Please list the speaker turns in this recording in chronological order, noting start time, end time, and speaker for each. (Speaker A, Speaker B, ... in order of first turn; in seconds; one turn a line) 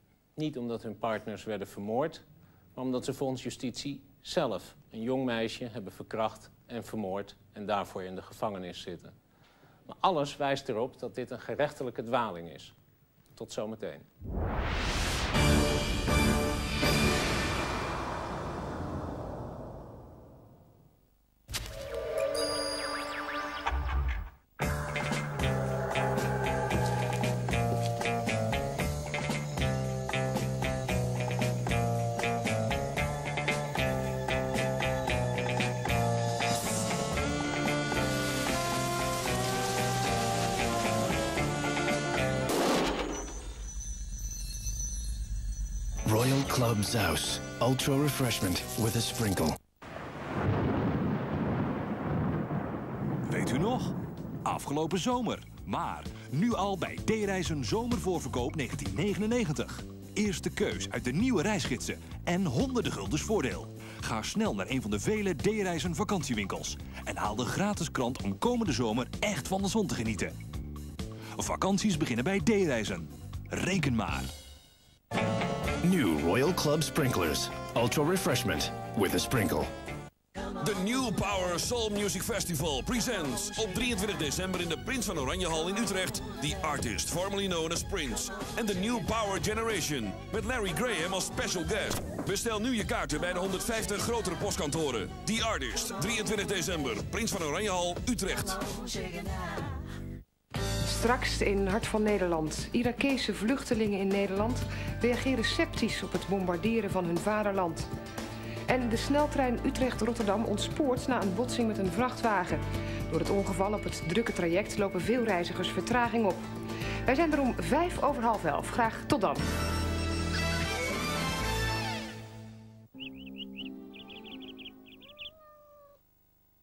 Speaker A: 0.4-9.1
Speaker A: 9.9-12.8
Speaker A: 13.3-14.1
Speaker B: 46.1-49.5
Speaker C: 53.3-70.3
Speaker C: 71.4-74.3
Speaker B: 75.8-79.7
Speaker D: 80.6-98.6
Speaker E: 100.8-107.9
Speaker E: 108.7-116.4
Speaker E: 117.1-119.5